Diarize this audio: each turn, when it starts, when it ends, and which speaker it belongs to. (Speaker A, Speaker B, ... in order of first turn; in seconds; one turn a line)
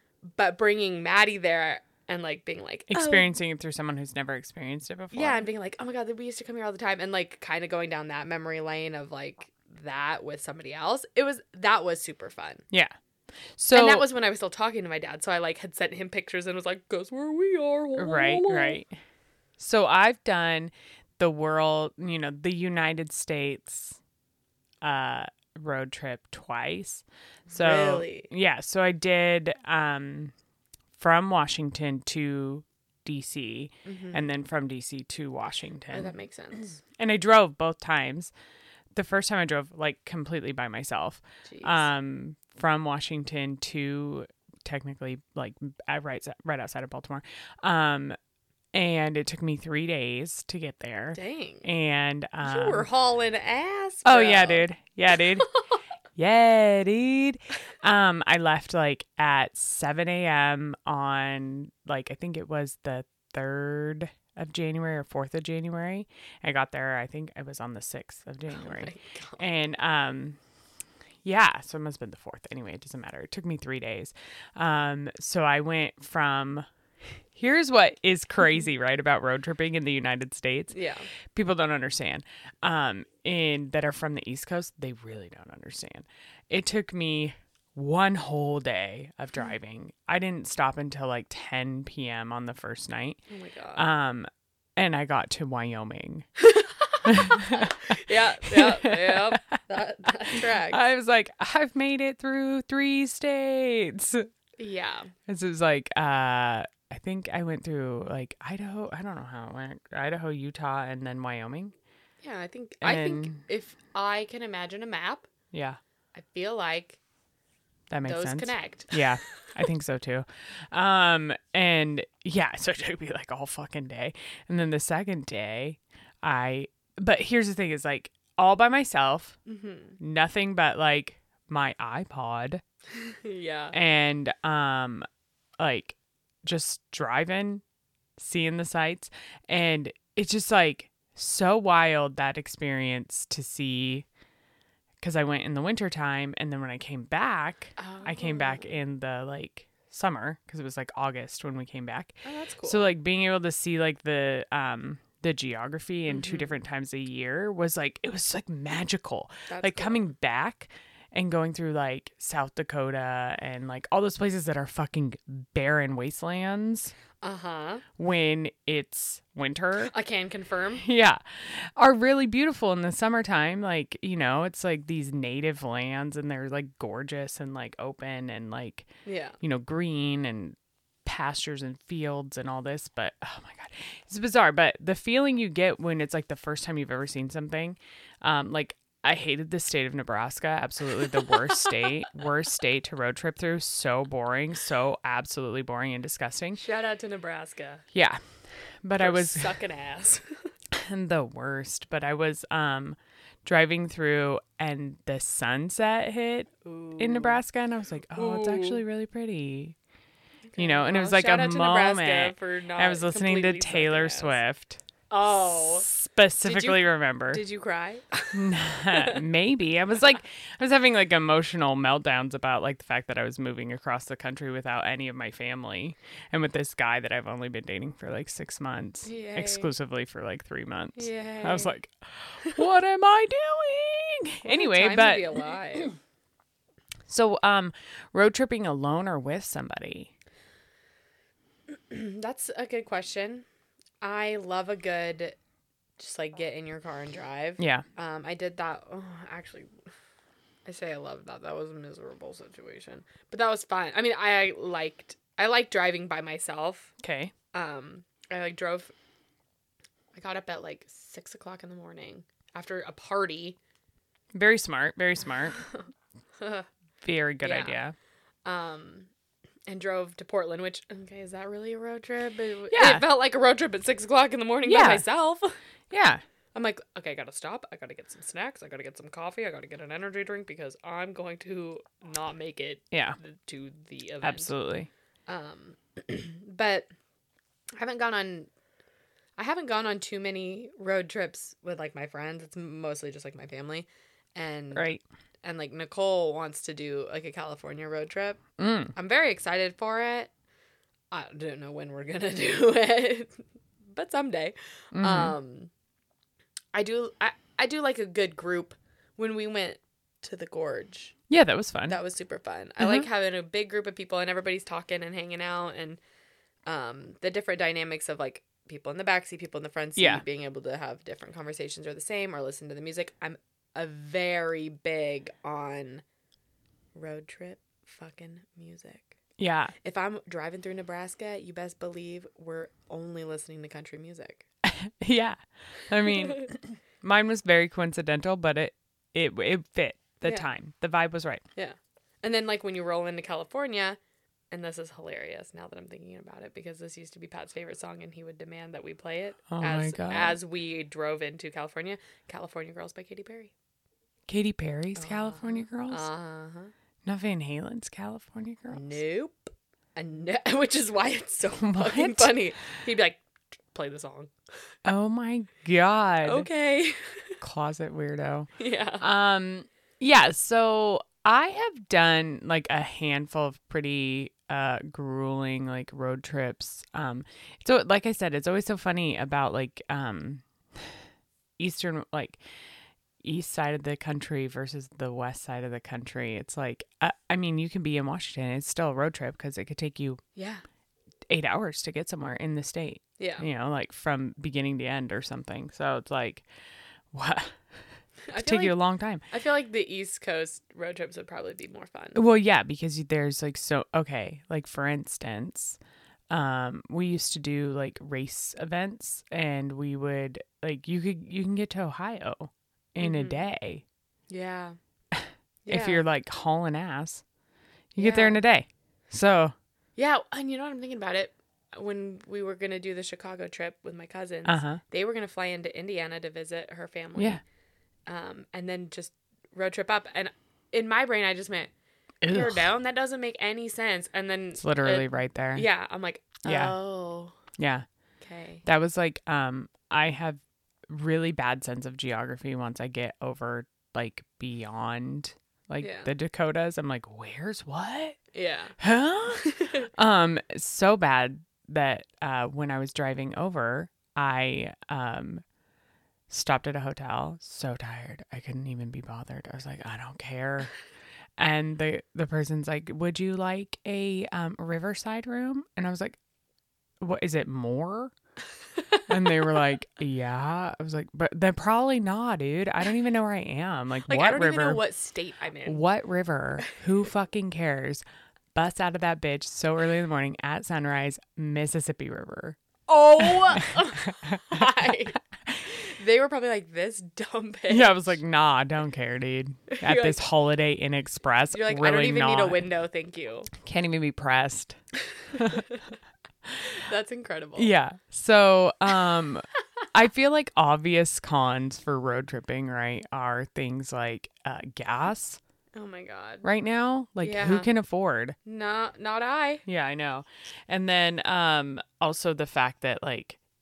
Speaker A: 0.3-3.3
Speaker B: 2.9-5.4
Speaker A: 5.1-12.6
Speaker B: 13.6-14.0
Speaker A: 13.7-18.8
Speaker B: 18.0-18.9
Speaker B: 19.6-24.0
Speaker B: 24.8-30.3
Speaker A: 27.5-28.3
Speaker B: 31.0-38.3
Speaker A: 33.8-34.3
Speaker A: 35.9-36.8
Speaker B: 38.9-48.1
Speaker A: 41.4-41.9
Speaker B: 48.7-52.9
Speaker A: 51.1-51.7
Speaker A: 52.4-54.7
Speaker B: 54.0-55.5
Speaker B: 56.1-70.4
Speaker A: 68.5-69.5
Speaker B: 71.2-76.7
Speaker B: 77.3-80.8
Speaker A: 80.7-81.1
Speaker B: 81.3-93.2
Speaker A: 93.3-93.9
Speaker B: 93.8-96.2
Speaker A: 96.4-100.8
Speaker B: 97.0-99.4
Speaker B: 100.3-104.3
Speaker A: 104.6-105.1
Speaker B: 105.3-111.7
Speaker A: 112.2-115.3
Speaker B: 112.8-113.4
Speaker B: 115.5-115.8
Speaker A: 116.1-117.0
Speaker B: 117.9-129.4
Speaker A: 118.0-119.1
Speaker A: 129.4-130.0
Speaker B: 130.0-132.6
Speaker A: 133.0-133.8
Speaker B: 133.7-135.0
Speaker B: 135.6-137.6
Speaker B: 138.2-144.1
Speaker B: 145.0-166.9
Speaker A: 147.8-148.6
Speaker A: 152.2-152.9
Speaker A: 156.1-156.5
Speaker A: 159.5-160.1
Speaker A: 167.2-167.8
Speaker B: 168.0-169.9
Speaker A: 169.9-170.8
Speaker B: 170.8-178.9
Speaker A: 179.0-179.3
Speaker B: 179.4-196.6
Speaker A: 191.1-191.7
Speaker A: 196.6-197.8
Speaker B: 197.9-198.2
Speaker B: 198.8-199.5
Speaker A: 199.0-200.4
Speaker B: 200.7-209.8
Speaker A: 206.6-207.4
Speaker A: 208.1-208.8
Speaker A: 210.5-214.4
Speaker B: 210.6-217.4
Speaker A: 215.1-215.9
Speaker A: 216.4-219.2
Speaker B: 218.3-235.4
Speaker A: 229.0-229.7
Speaker A: 231.0-231.7
Speaker A: 234.4-235.9
Speaker B: 237.1-240.1
Speaker A: 241.7-243.4
Speaker A: 244.0-245.4
Speaker A: 246.0-249.7
Speaker B: 247.6-247.8
Speaker A: 250.7-256.9
Speaker B: 257.0-257.3
Speaker A: 257.5-258.9
Speaker A: 260.1-263.6
Speaker B: 264.3-265.6
Speaker A: 265.5-266.7
Speaker B: 267.0-267.9
Speaker A: 267.4-267.7
Speaker A: 268.4-269.1
Speaker A: 269.7-275.5
Speaker B: 272.7-273.0
Speaker B: 274.6-275.0
Speaker B: 275.9-276.2
Speaker A: 276.5-284.5
Speaker B: 282.9-283.2
Speaker B: 284.2-284.9
Speaker A: 285.3-286.9
Speaker A: 287.8-288.5
Speaker A: 289.4-294.9
Speaker B: 294.7-295.0
Speaker A: 295.4-298.4
Speaker B: 298.6-298.9
Speaker A: 298.9-300.3
Speaker A: 301.1-303.4
Speaker A: 303.9-305.7
Speaker B: 304.9-305.3
Speaker A: 306.7-311.1
Speaker B: 311.3-312.0
Speaker A: 311.9-316.0
Speaker B: 312.8-313.1
Speaker A: 316.6-326.0
Speaker B: 320.0-320.2
Speaker A: 326.9-329.2
Speaker B: 329.4-329.7
Speaker A: 329.8-334.4
Speaker B: 334.6-341.4
Speaker A: 336.0-336.5
Speaker A: 341.6-344.0
Speaker A: 344.5-353.5
Speaker B: 349.5-350.4
Speaker B: 354.3-356.1
Speaker A: 355.0-356.7
Speaker B: 357.0-359.0
Speaker A: 358.7-363.2
Speaker B: 361.6-362.3
Speaker A: 363.7-364.3
Speaker B: 364.8-366.5
Speaker A: 366.2-367.3
Speaker B: 367.4-381.0
Speaker A: 368.6-369.1
Speaker B: 381.6-382.4
Speaker B: 383.2-390.2
Speaker A: 390.3-390.6
Speaker B: 391.3-396.4
Speaker A: 393.2-393.4
Speaker B: 397.1-397.6
Speaker A: 398.3-398.8
Speaker B: 398.3-399.2
Speaker A: 399.3-402.2
Speaker B: 402.1-405.8
Speaker B: 406.3-413.8
Speaker A: 413.0-413.5
Speaker A: 414.3-414.8
Speaker B: 415.1-417.2
Speaker A: 415.6-416.0
Speaker B: 417.9-419.5
Speaker A: 418.0-418.4
Speaker A: 419.9-427.4
Speaker B: 424.4-424.8
Speaker B: 427.1-427.4
Speaker A: 428.1-431.7
Speaker B: 432.2-432.7
Speaker A: 432.3-437.4
Speaker B: 434.6-435.7
Speaker B: 436.4-436.8
Speaker B: 437.6-437.9
Speaker A: 438.2-438.6
Speaker B: 438.6-448.2
Speaker A: 445.8-446.1
Speaker A: 448.3-448.8
Speaker B: 448.8-455.4
Speaker A: 449.3-449.9
Speaker B: 456.3-460.7
Speaker B: 461.4-466.2
Speaker B: 467.0-468.1
Speaker A: 468.9-469.2
Speaker B: 469.1-474.8
Speaker A: 474.1-475.8
Speaker B: 475.6-478.0
Speaker B: 478.5-482.6
Speaker A: 482.9-488.1
Speaker B: 483.2-484.9
Speaker B: 487.7-492.6
Speaker A: 489.7-490.2
Speaker A: 491.5-493.5
Speaker B: 493.5-494.8
Speaker A: 495.1-495.9
Speaker B: 495.3-495.6
Speaker A: 496.6-497.7
Speaker B: 497.6-505.4
Speaker A: 505.8-506.4
Speaker B: 506.4-508.4
Speaker A: 507.2-507.7
Speaker A: 508.4-509.6
Speaker B: 509.6-513.4